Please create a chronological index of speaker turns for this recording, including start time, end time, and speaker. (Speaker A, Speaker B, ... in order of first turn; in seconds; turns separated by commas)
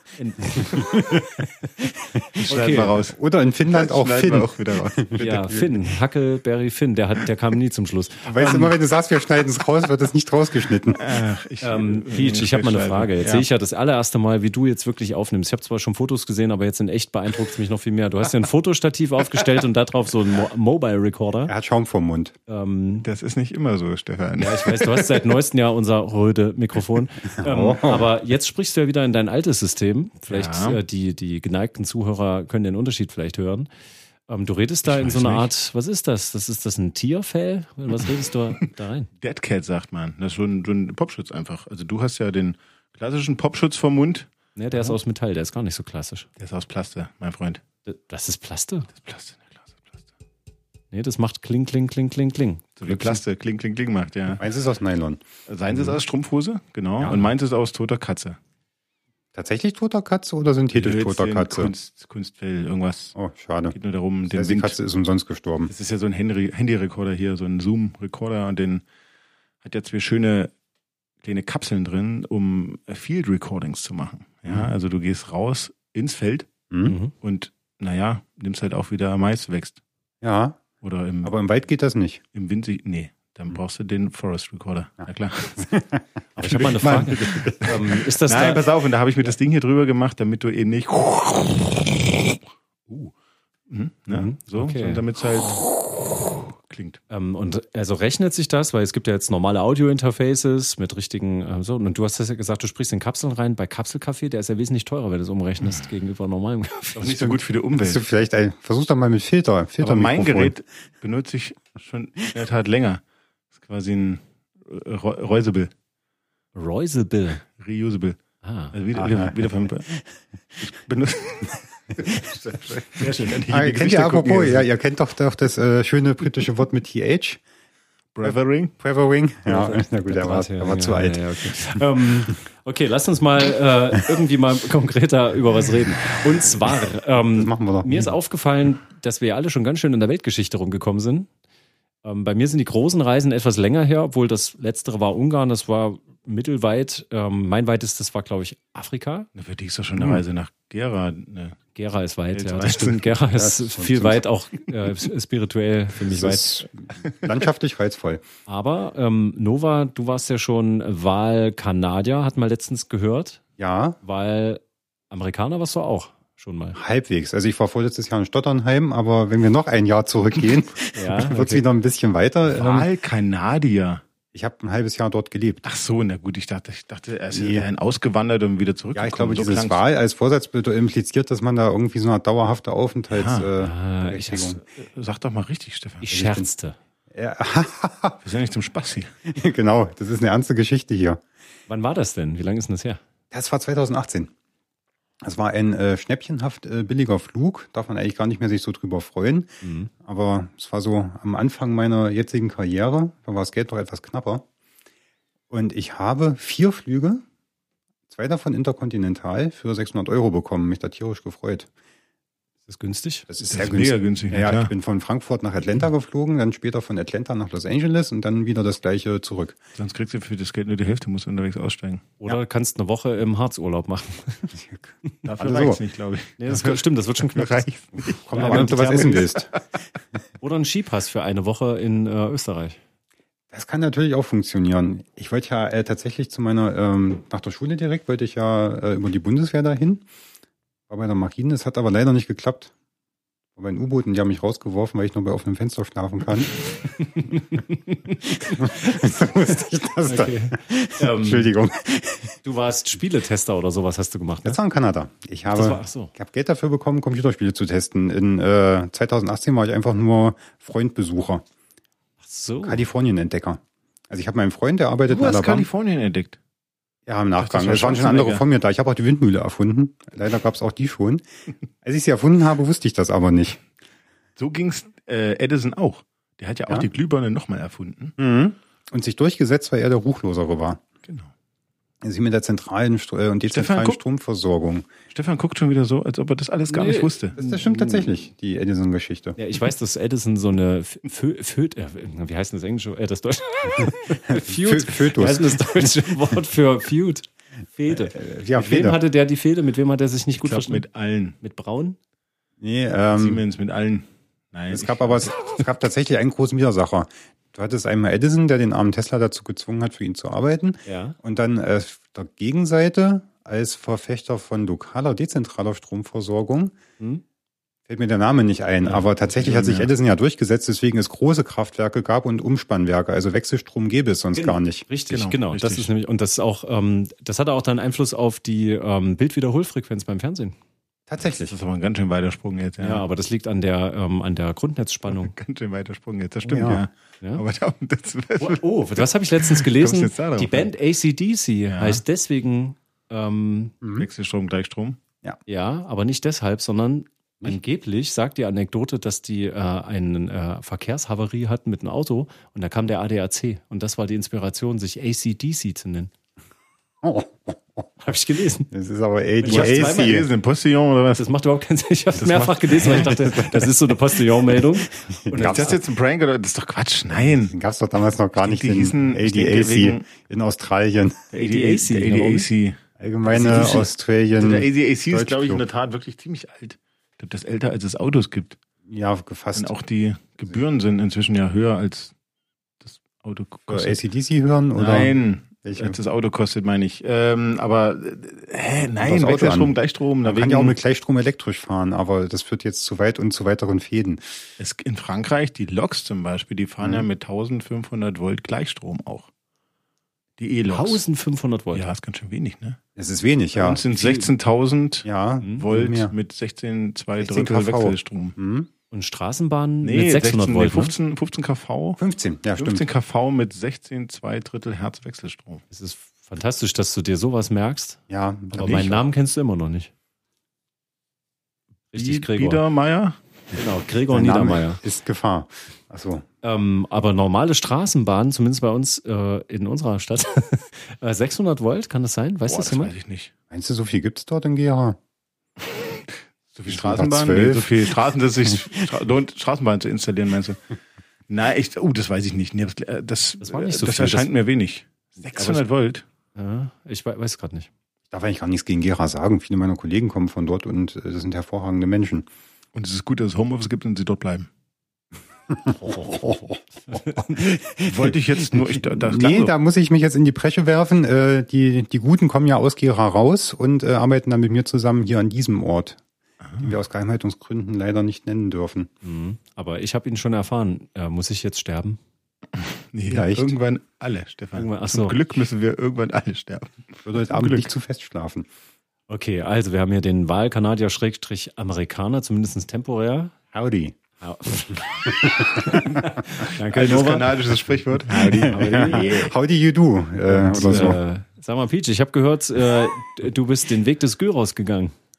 Speaker A: 0.2-1.1, Speaker B: 0.6-2.2, Speaker C: 2.4-5.8, Speaker A: 2.5-3.0, Speaker B: 3.1-5.2, Speaker A: 5.2-8.7, Speaker B: 8.3-11.0, Speaker C: 10.9-13.5, Speaker A: 11.6-21.5, Speaker B: 21.5-22.4, Speaker A: 22.5-23.1, Speaker C: 23.0-25.2, Speaker A: 24.4-33.7, Speaker B: 27.4-28.1, Speaker C: 30.3-30.8, Speaker A: 34.3-39.1, Speaker C: 34.9-35.5, Speaker C: 38.0-38.6, Speaker C: 39.2-45.0, Speaker A: 44.6-46.3, Speaker C: 46.4-47.6, Speaker A: 47.9-48.9, Speaker C: 49.0-50.0, Speaker A: 50.9-53.2, Speaker C: 52.8-54.4, Speaker B: 54.4-55.2, Speaker C: 55.5-58.4, Speaker B: 57.0-57.3, Speaker B: 59.4-61.7, Speaker C: 60.7-63.1, Speaker B: 63.1-63.8, Speaker C: 63.7-64.8, Speaker B: 64.3-65.7, Speaker C: 65.7-68.8, Speaker C: 69.6-70.5, Speaker C: 71.2-76.5, Speaker B: 76.7-77.0, Speaker A: 76.8-77.1, Speaker C: 77.2-79.8, Speaker B: 80.2-80.6, Speaker C: 80.8-81.3, Speaker B: 81.2-82.2, Speaker C: 82.3-85.7, Speaker B: 85.6-87.9, Speaker A: 86.4-88.6, Speaker C: 86.5-87.0, Speaker C: 87.6-93.1, Speaker C: 93.7-97.0, Speaker A: 94.1-95.0, Speaker A: 97.1-107.2, Speaker C: 107.0-108.0, Speaker B: 107.1-110.5, Speaker C: 109.8-113.0, Speaker C: 113.6-115.7, Speaker A: 116.5-117.4, Speaker C: 117.6-118.2, Speaker A: 118.4-118.7, Speaker C: 118.7-119.9, Speaker B: 119.0-119.4, Speaker C: 120.6-124.7, Speaker A: 123.0-123.4, Speaker B: 123.5-127.4, Speaker C: 128.2-128.7, Speaker B: 128.2-131.8, Speaker A: 129.5-141.3, Speaker B: 137.3-138.1, Speaker A: 142.0-149.3, Speaker C: 149.4-151.6, Speaker B: 149.9-150.2, Speaker A: 151.8-156.5, Speaker C: 152.3-153.2, Speaker B: 153.4-154.2, Speaker B: 156.1-158.2, Speaker A: 158.5-163.4, Speaker B: 163.6-164.0, Speaker A: 164.0-166.8, Speaker B: 166.8-172.9, Speaker A: 170.9-171.7, Speaker C: 172.6-174.0, Speaker B: 174.3-175.7, Speaker C: 175.7-179.8, Speaker B: 177.3-177.7, Speaker B: 178.9-184.6, Speaker C: 183.1-183.5, Speaker A: 183.6-184.6, Speaker C: 184.8-186.1, Speaker A: 186.0-186.8, Speaker B: 186.1-186.5, Speaker B: 187.1-188.2, Speaker C: 188.2-189.1, Speaker B: 189.3-191.2, Speaker A: 191.7-193.0, Speaker B: 193.3-194.3, Speaker B: 195.2-204.4, Speaker A: 199.6-199.9, Speaker B: 205.5-207.2, Speaker B: 208.1-211.7, Speaker A: 212.7-213.3, Speaker B: 213.3-219.6, Speaker C: 213.5-214.7, Speaker C: 219.8-222.2, Speaker A: 222.2-224.5, Speaker B: 224.5-225.8, Speaker C: 225.2-228.7, Speaker A: 226.4-229.3, Speaker B: 228.2-229.5, Speaker A: 230.4-232.8, Speaker B: 233.5-240.1, Speaker B: 240.9-242.7, Speaker B: 243.6-246.6, Speaker A: 247.1-248.5, Speaker B: 248.2-252.4, Speaker A: 250.1-251.5, Speaker A: 252.4-254.6, Speaker B: 254.4-261.4, Speaker A: 255.5-256.1, Speaker A: 262.2-262.9, Speaker B: 262.6-265.7, Speaker C: 265.1-266.4, Speaker B: 267.1-271.2, Speaker C: 267.4-268.4, Speaker B: 271.8-273.6, Speaker C: 274.4-278.2, Speaker B: 278.2-280.8, Speaker C: 281.1-281.3, Speaker B: 282.0-284.9, Speaker C: 283.5-284.0, Speaker C: 285.1-287.4, Speaker A: 286.7-288.1, Speaker B: 287.4-289.4, Speaker A: 289.4-300.8, Speaker B: 294.3-295.6, Speaker B: 297.9-299.0, Speaker C: 300.4-301.4, Speaker A: 301.4-302.0, Speaker B: 302.6-303.4, Speaker C: 303.1-305.3, Speaker B: 304.7-316.8, Speaker A: 310.9-311.2, Speaker B: 317.9-324.9, Speaker C: 318.9-319.9, Speaker A: 324.4-330.6, Speaker C: 325.1-325.9, Speaker B: 331.1-331.5, Speaker C: 331.2-333.1, Speaker A: 332.8-335.3, Speaker C: 335.1-338.6, Speaker B: 336.4-336.9, Speaker A: 338.4-343.8, Speaker C: 339.4-340.7, Speaker C: 341.7-342.0, Speaker B: 343.8-344.1, Speaker C: 344.0-345.0, Speaker A: 345.5-356.1, Speaker B: 357.0-357.9, Speaker A: 358.0-358.7, Speaker B: 358.7-360.3, Speaker A: 359.4-360.3, Speaker C: 359.4-361.3, Speaker A: 361.2-365.8, Speaker C: 362.1-363.4, Speaker B: 365.0-365.7, Speaker C: 365.4-367.5, Speaker B: 367.5-371.2, Speaker C: 368.4-370.0, Speaker C: 371.3-372.8, Speaker A: 371.3-372.5, Speaker B: 373.0-375.6, Speaker C: 373.3-378.6, Speaker A: 373.3-373.8, Speaker B: 378.9-379.7, Speaker C: 379.5-382.1, Speaker C: 382.8-384.0, Speaker B: 383.7-386.0, Speaker C: 384.8-390.8, Speaker B: 389.0-394.2, Speaker C: 394.6-399.3, Speaker B: 396.8-397.1, Speaker C: 400.4-401.0, Speaker A: 400.7-401.9, Speaker C: 401.7-402.8, Speaker B: 403.0-403.8, Speaker C: 403.6-408.4, Speaker A: 403.9-404.3, Speaker B: 405.1-406.1, Speaker B: 407.2-408.7, Speaker A: 408.9-410.9, Speaker C: 409.8-412.0, Speaker B: 412.0-412.8, Speaker C: 412.6-415.6, Speaker A: 415.7-418.0, Speaker B: 418.1-418.9, Speaker A: 418.5-419.9, Speaker C: 418.6-419.0, Speaker A: 421.9-422.6, Speaker C: 422.0-423.2, Speaker A: 423.5-424.8, Speaker B: 424.1-426.2, Speaker A: 426.4-432.9, Speaker C: 432.5-433.3, Speaker B: 433.5-435.0, Speaker C: 435.7-440.6, Speaker B: 436.7-437.9, Speaker C: 441.3-446.0, Speaker A: 443.4-444.3, Speaker A: 445.3-445.6, Speaker A: 446.4-447.7, Speaker B: 448.1-452.3, Speaker C: 452.8-454.5, Speaker B: 455.5-466.0, Speaker A: 455.9-456.3, Speaker A: 456.9-457.4, Speaker C: 457.8-459.5, Speaker B: 466.6-468.9, Speaker A: 469.0-472.0, Speaker C: 472.6-477.7, Speaker B: 473.1-473.5, Speaker A: 474.5-475.2, Speaker B: 477.1-478.5, Speaker A: 479.1-483.3, Speaker B: 483.5-483.9, Speaker A: 484.2-487.4, Speaker B: 485.1-486.0, Speaker C: 486.4-489.3, Speaker B: 488.2-491.0, Speaker A: 488.4-489.3, Speaker A: 490.3-494.9